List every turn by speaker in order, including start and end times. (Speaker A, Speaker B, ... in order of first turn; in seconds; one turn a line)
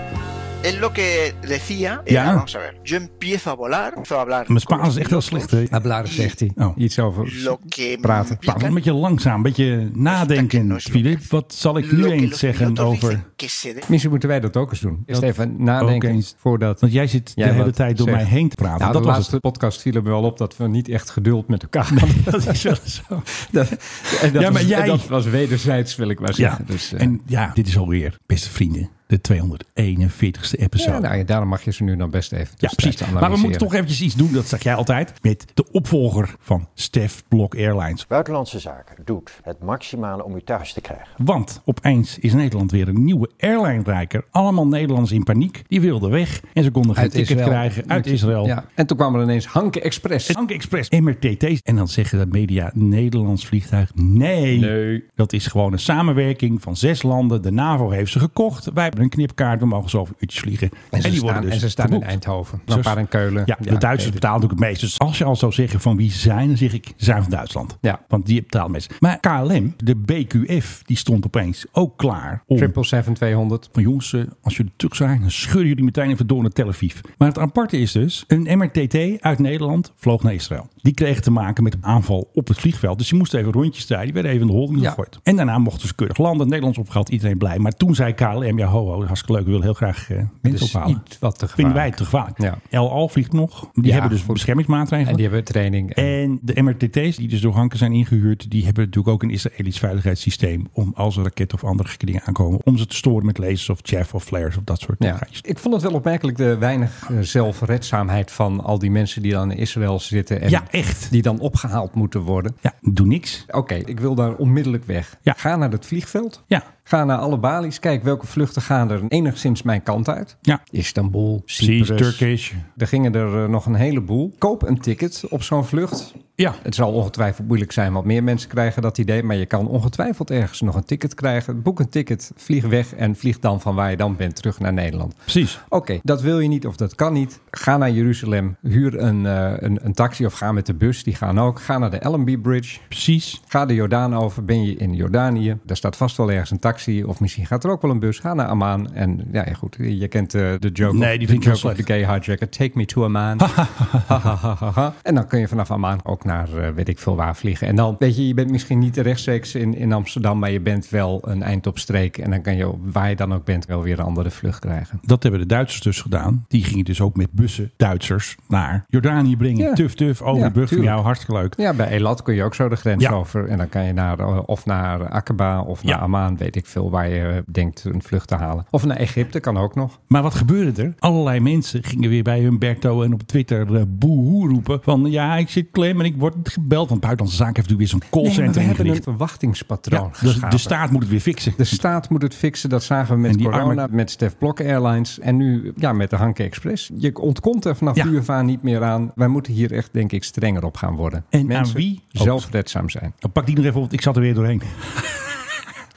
Speaker A: 0.6-6.3
Speaker B: 2.1-2.5
Speaker B: 4.5-5.8
Speaker C: 5.7-8.4
Speaker A: 7.2-8.8
Speaker B: 8.4-13.2
Speaker A: 10.1-11.3
Speaker A: 11.8-13.9
Speaker C: 13.9-16.8
Speaker B: 15.1-19.4
Speaker C: 17.4-22.8
Speaker B: 21.9-23.4
Speaker C: 23.3-27.2
Speaker B: 24.0-25.1
Speaker B: 26.4-31.1
Speaker C: 30.8-33.7
Speaker B: 32.6-38.1
Speaker D: 38.1-41.2
Speaker B: 41.2-48.5
Speaker C: 47.0-50.4
Speaker B: 50.3-62.2
Speaker C: 54.5-55.0
Speaker C: 60.9-64.2
Speaker B: 62.7-72.7
Speaker C: 72.6-73.7
Speaker B: 73.7-91.0
Speaker C: 90.5-92.6
Speaker B: 91.6-95.2
Speaker C: 93.8-94.4
Speaker C: 95.0-96.1
Speaker B: 96.0-105.4
Speaker C: 105.0-112.6
Speaker B: 110.5-111.1
Speaker B: 112.6-113.5
Speaker C: 113.5-142.9
Speaker B: 121.6-122.7
Speaker B: 135.3-135.6
Speaker B: 142.9-143.4
Speaker C: 143.5-165.0
Speaker B: 150.9-151.8
Speaker B: 153.4-154.2
Speaker B: 165.0-171.6
Speaker C: 169.6-171.0
Speaker C: 171.6-180.0
Speaker B: 180.1-189.0
Speaker C: 188.2-190.7
Speaker B: 189.9-191.8
Speaker C: 191.6-203.2
Speaker B: 193.3-193.9
Speaker B: 201.3-202.5
Speaker B: 203.2-205.4